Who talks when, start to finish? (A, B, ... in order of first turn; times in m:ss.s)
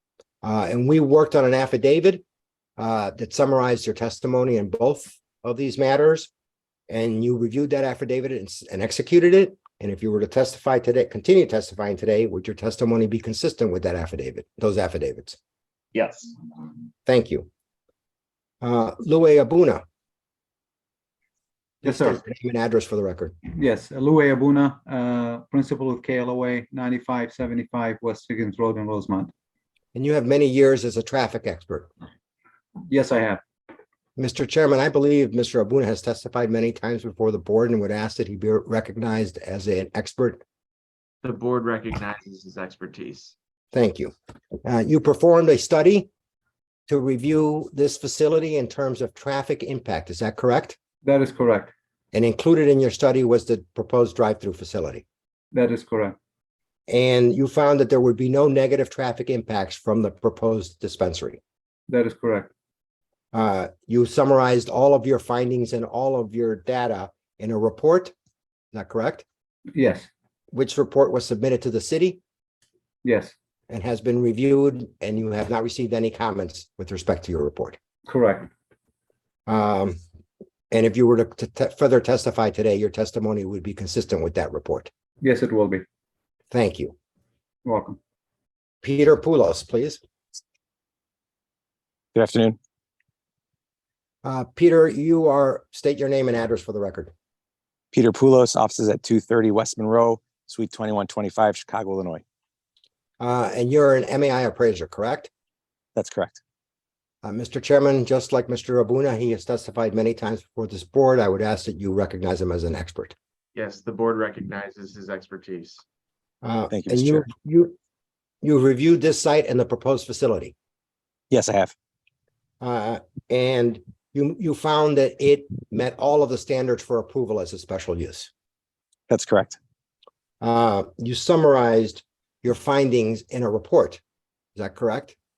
0:00.4-0:02.2 A
0:02.8-0:06.3 A
0:06.9-0:15.4 A
0:17.1-0:17.5 A
0:18.6-0:19.8 A
0:21.8-0:22.2 B
0:21.8-0:23.4 A
0:23.5-0:29.3 B
0:30.0-0:31.9 A
0:32.9-0:33.4 B
0:34.2-0:40.4 A
0:41.2-0:43.3 C
0:43.7-0:44.1 A
0:44.6-0:46.1 A
0:46.9-0:50.8 A
0:51.0-0:51.7 B
0:52.1-0:55.0 A
0:55.5-0:56.2 B
0:56.9-1:01.4 A
1:01.9-1:02.5 B
1:03.3-1:08.1 A
1:08.7-1:09.2 A
1:09.7-1:10.1 B
1:10.5-1:12.2 A
1:13.0-1:13.3 B
1:13.7-1:17.8 A
1:18.1-1:18.5 B
1:19.5-1:20.0 A
1:20.7-1:24.9 A
1:25.2-1:25.8 B
1:26.5-1:27.0 A
1:27.6-1:28.0 B
1:28.8-1:30.0 A
1:32.1-1:32.6 D
1:34.2-1:37.1 A
1:37.9-1:42.2 D
1:43.2-1:45.3 A
1:46.0-1:46.4 D
1:47.2-1:53.1 A
1:53.6-1:55.8 C
1:56.4-1:57.7 A
1:56.7-1:57.3 D
1:58.4-2:00.5 A
2:01.3-2:01.7 D
2:02.6-2:08.3 A
2:09.1-2:09.6 D
2:10.4-2:14.0 A
2:14.6-2:15.2 A